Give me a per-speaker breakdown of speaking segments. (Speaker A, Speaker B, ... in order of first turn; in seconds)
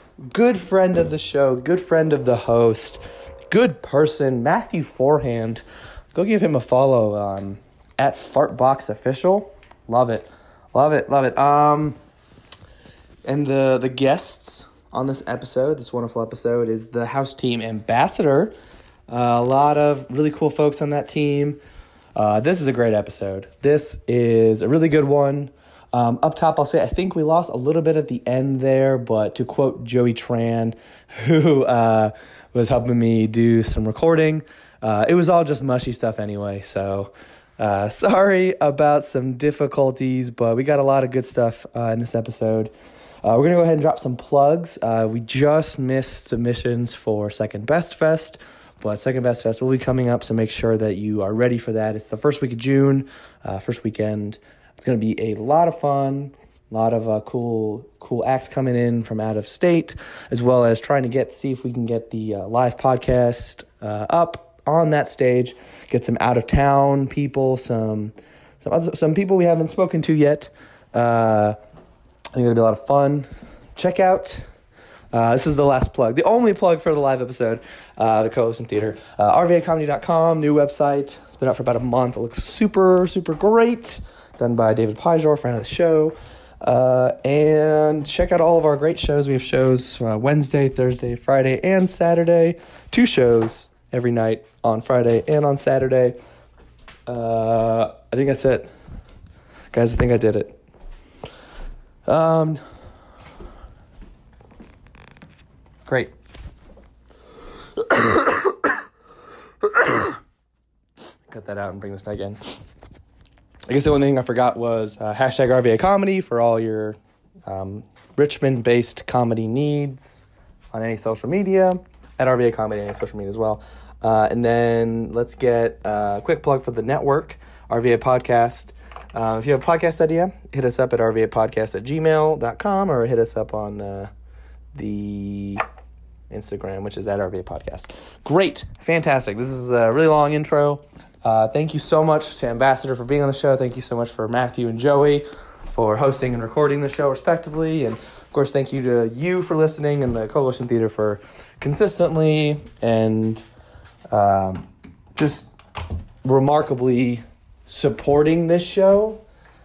Speaker A: 0.3-12.0, 13.2-18.6, 19.1-21.6, 22.1-42.7, 43.2-71.6, 72.3-74.4, 75.1-96.2, 97.1-98.7, 99.7-100.6, 102.1-102.6, 105.9-106.1, 107.8-108.7, 109.7-110.1, 111.3-112.6, 113.7-134.1, 134.7-135.6, 136.3-153.4, 154.1-155.5, 156.2-159.2